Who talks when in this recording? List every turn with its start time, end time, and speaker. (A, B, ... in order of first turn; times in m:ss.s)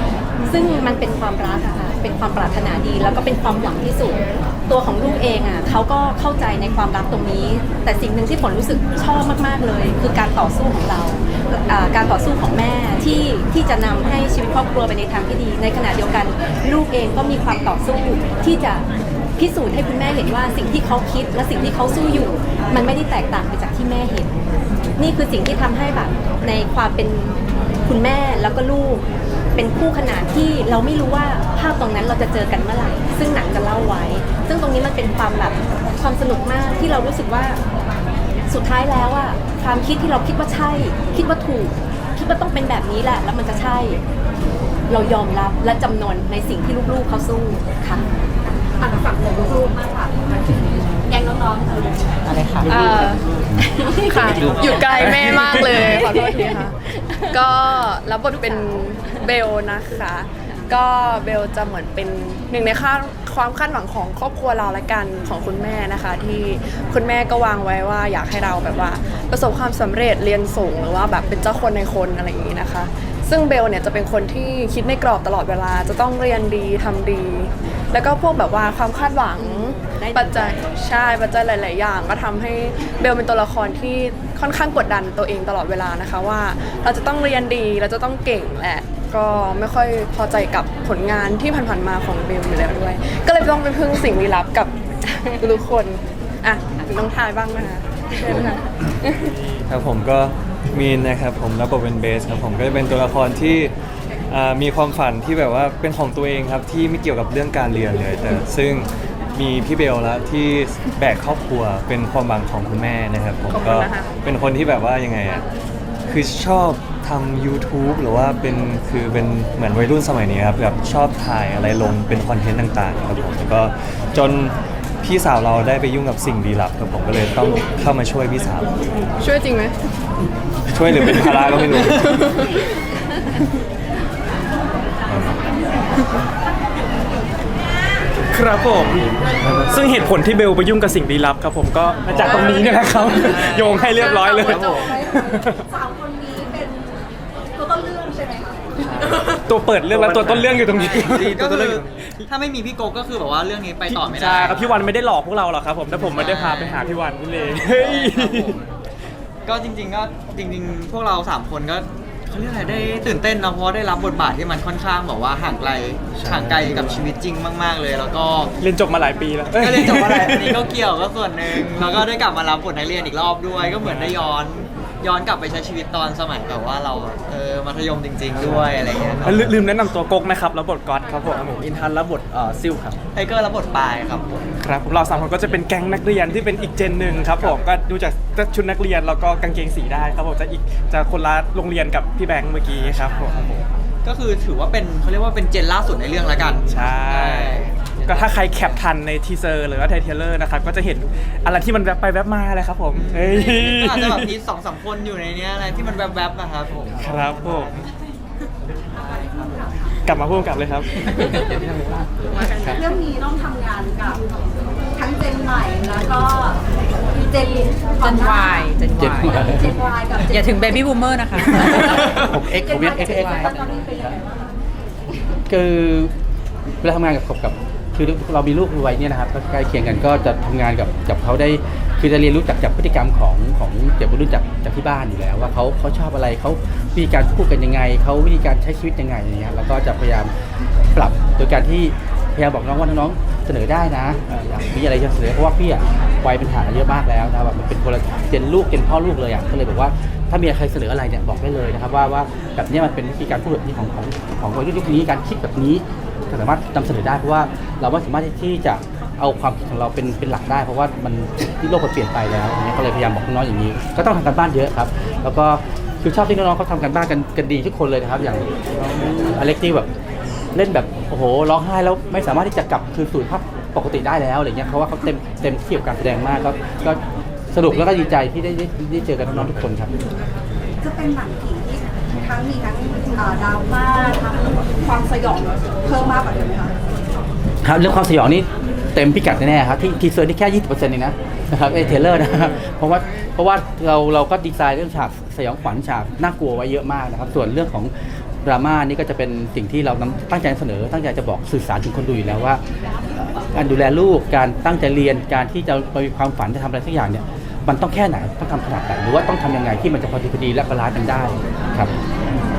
0:00.4-0:18.8 A
0:19.4-0:24.3 A
0:25.0-0:29.0 A
0:29.6-0:37.6 A
0:38.5-0:44.0 A
0:44.9-0:48.0 A
0:48.8-0:50.3 B
0:51.0-0:52.2 B
0:52.2-0:52.7 C
0:52.7-0:53.2 D
0:53.8-1:39.3 D
0:54.1-0:57.4 A
0:54.3-0:54.7 E
0:58.4-0:59.2 A
1:19.4-1:20.8 A
1:39.7-1:43.7 F
1:44.3-1:55.4 F
1:53.5-1:54.1 D
1:56.1-2:08.8 F
2:09.2-2:09.7 D
2:10.7-2:12.2 F
2:11.0-2:12.5 D
2:15.1-2:15.4 F
2:18.3-2:19.1 G
2:19.7-2:25.7 G
2:22.2-2:25.3 E
2:23.7-2:29.2 B
2:28.9-2:34.9 E
2:29.4-2:32.3 G
2:33.9-2:38.5 G
2:35.9-2:36.9 E
2:37.5-2:38.6 E
2:39.4-2:48.5 E
2:48.6-2:50.7 G
2:49.4-2:59.6 E
2:51.5-2:51.8 G
2:53.8-2:54.3 G
2:59.2-3:02.9 G
3:02.2-3:04.5 E
3:04.6-3:13.6 G
3:07.2-3:07.6 E
3:12.7-3:18.9 E
3:16.7-3:24.3 G
3:22.9-3:27.9 E
3:27.0-3:27.8 G
3:29.0-3:29.9 B
3:30.0-3:31.6 G
3:32.4-3:32.7 D
3:32.7-3:34.4 B
3:34.9-3:36.6 B
3:37.1-3:38.6 B
3:38.0-3:39.6 C
3:39.0-3:39.8 H
3:39.3-3:40.6 B
3:40.2-3:42.3 C
3:41.7-3:43.6 H
3:42.5-3:44.4 B
3:43.0-3:43.6 C
3:45.5-3:46.1 H
3:46.8-4:00.3 H
4:00.9-4:29.9 H
4:30.5-4:37.0 H
4:37.5-4:39.9 H
4:40.8-4:46.8 B
4:47.6-4:57.9 H
4:58.4-5:02.6 H
5:03.1-5:11.9 H